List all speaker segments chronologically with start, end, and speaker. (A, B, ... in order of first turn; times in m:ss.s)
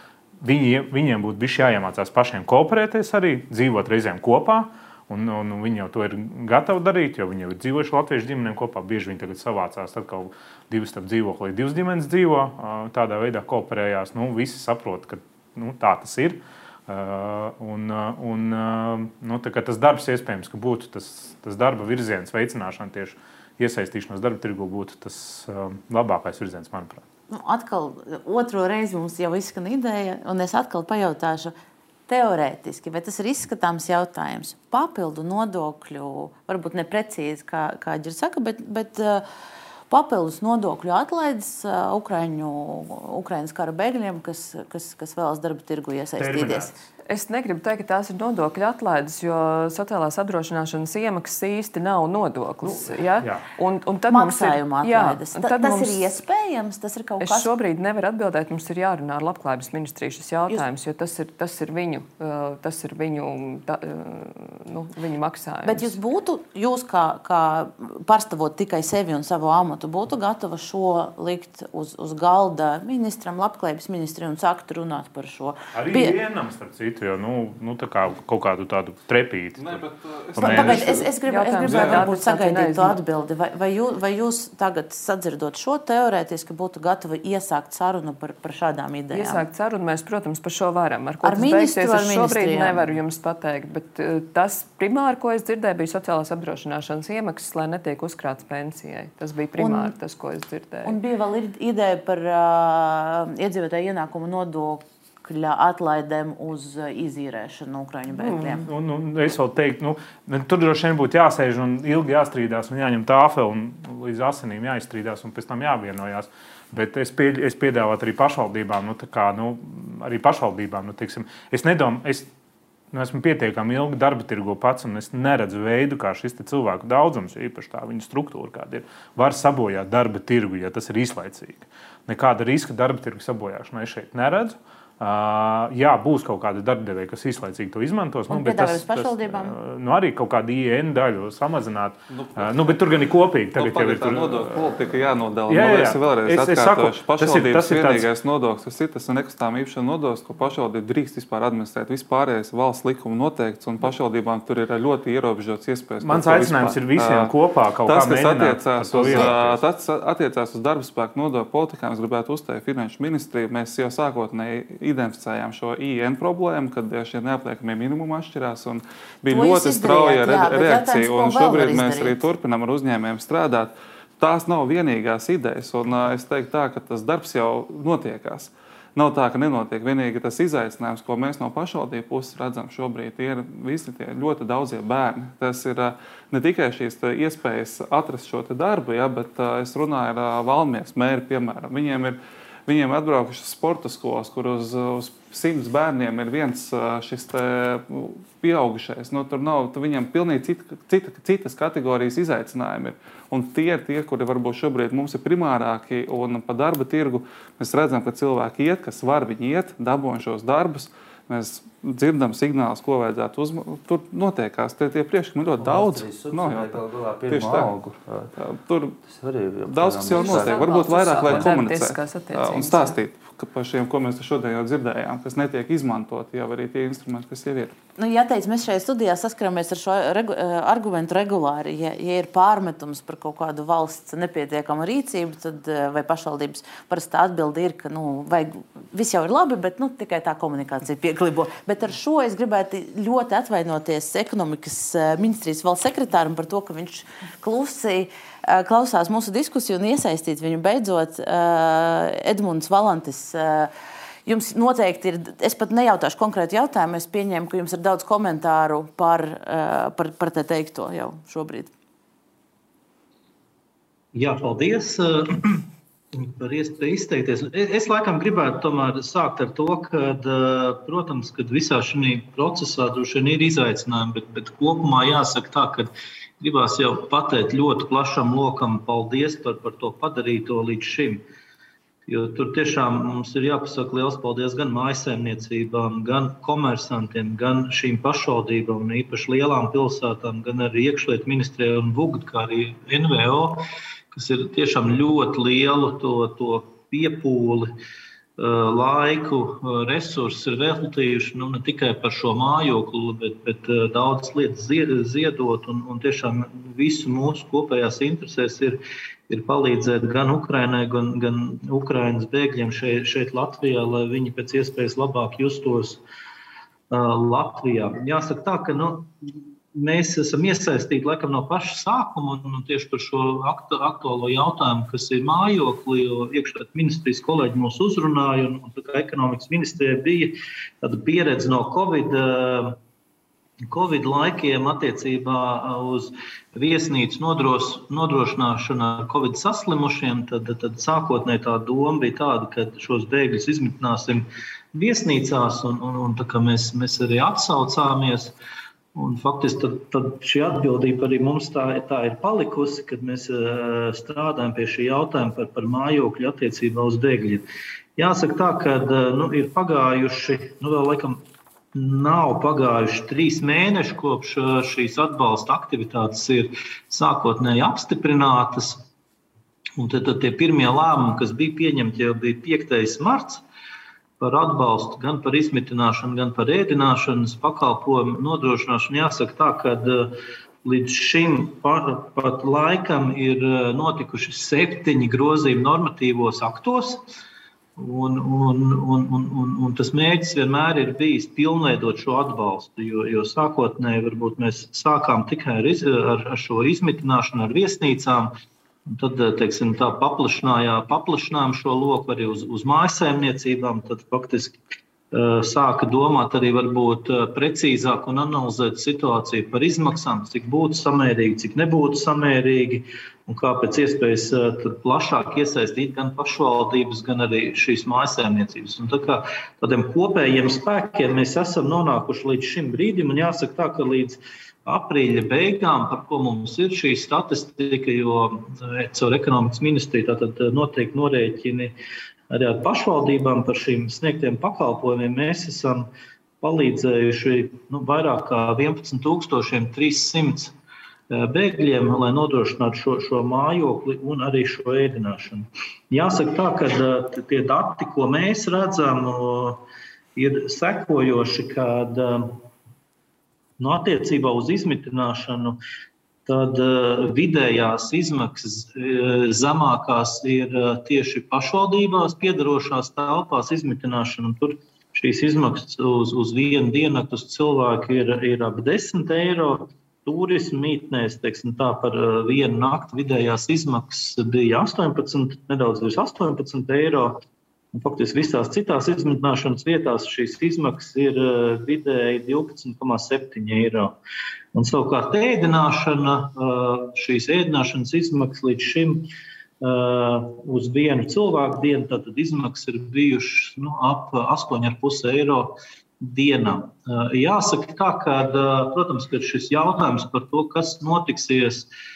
0:00.4-0:27.0 A
0:27.3-0:31.5 B
0:32.1-0:39.2 B
0:39.9-0:46.7 B
0:46.2-0:46.8 A
0:47.1-0:56.2 C
0:52.6-0:53.4 A
0:54.1-0:57.5 B
0:57.2-1:06.0 C
1:05.6-1:16.2 B
1:15.7-1:19.8 A
1:19.6-1:21.1 D
1:20.4-1:21.0 A
1:20.4-1:29.4 B
1:21.3-1:23.0 C
1:21.6-1:22.0 D
1:29.1-1:41.0 C
1:31.2-1:32.9 B
1:39.6-1:40.0 B
1:40.8-1:48.7 B
1:48.6-2:02.3 A
2:02.9-2:28.1 A
2:18.3-2:19.6 B
2:22.1-3:37.8 D
2:36.0-2:39.6 A
2:49.3-2:52.3 B
3:35.6-3:38.3 E
3:38.4-3:39.0 D
3:39.1-3:40.7 E
3:39.7-3:47.8 D
3:40.0-3:43.0 C
3:41.2-3:41.5 E
3:48.0-4:13.7 B
4:14.3-4:21.7 B
4:24.1-4:41.2 F
4:42.1-4:53.6 F
4:54.1-4:57.7 F
4:58.4-5:16.0 F
5:16.9-5:19.1 F
5:19.7-5:32.8 F
5:33.7-5:48.4 F
5:49.0-5:57.4 F
5:58.0-6:01.2 F
6:01.8-6:08.8 F
6:09.8-6:13.4 F
6:14.2-6:27.0 F
6:27.8-6:38.3 F
6:38.9-6:44.6 F
6:45.1-7:11.7 F
7:12.3-7:15.9 F
7:16.4-7:20.6 F
7:21.1-7:29.6 F
7:30.2-7:32.4 F
7:33.6-7:35.6 F
7:36.3-7:57.2 F
7:57.7-8:04.0 F
8:04.5-8:09.1 F
8:09.6-8:21.7 F